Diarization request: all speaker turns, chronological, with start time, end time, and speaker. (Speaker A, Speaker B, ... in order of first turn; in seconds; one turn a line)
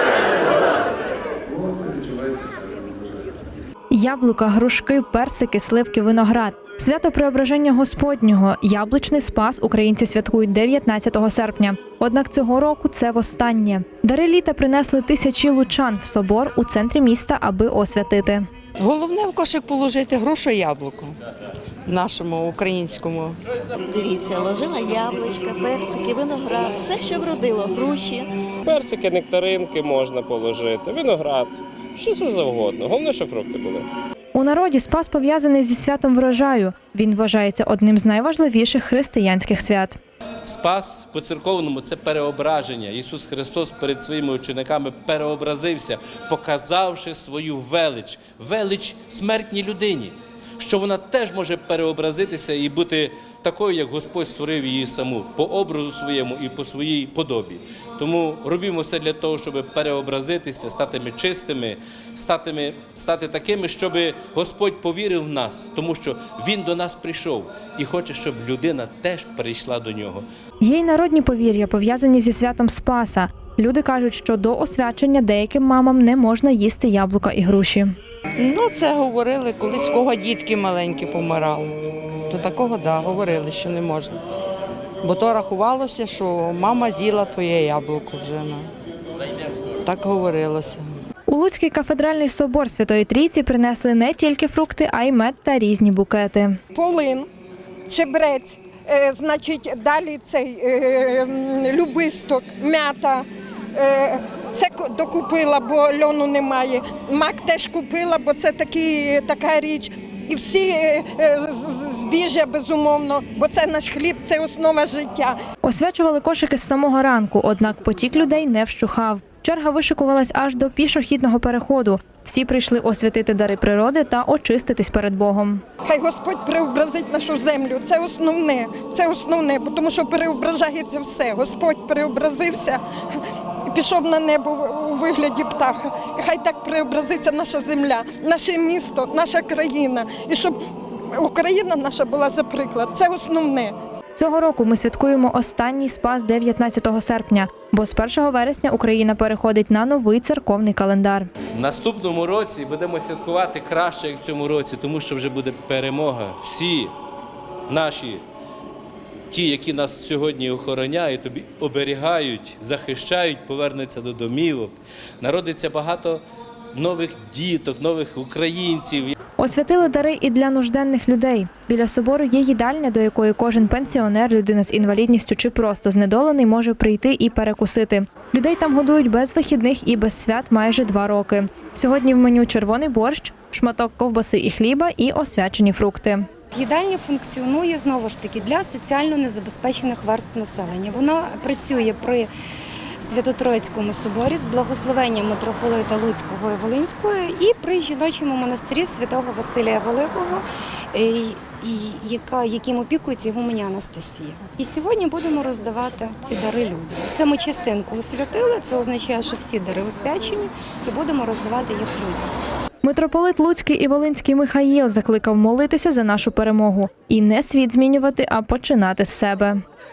Speaker A: 3.9-18.5
Speaker B: 18.8-21.1
Speaker B: 21.9-23.4
Speaker C: 23.9-28.3
Speaker D: 28.6-33.9
Speaker A: 34.3-40.0
Speaker E: 40.4-70.2
Speaker A: 70.6-77.9
Speaker B: 78.4-81.7
Speaker B: 82.3-84.2
Speaker B: 85.0-88.7
Speaker B: 89.8-90.9
Speaker A: 91.3-96.6
Speaker F: 96.7-97.3
Speaker F: 97.9-115.4
Speaker A: 115.6-125.6
Speaker F: 125.8-132.8
Speaker F: 133.7-140.6
Speaker F: 141.1-143.7
Speaker A: 144.2-151.3
Speaker E: 151.5-156.9
Speaker E: 157.7-158.2
Speaker E: 159.3-166.2
Speaker E: 166.7-169.2
Speaker A: 169.4-186.3
Speaker G: 186.5-192.3
Speaker G: 193.0-212.3
Speaker A: 212.8-219.6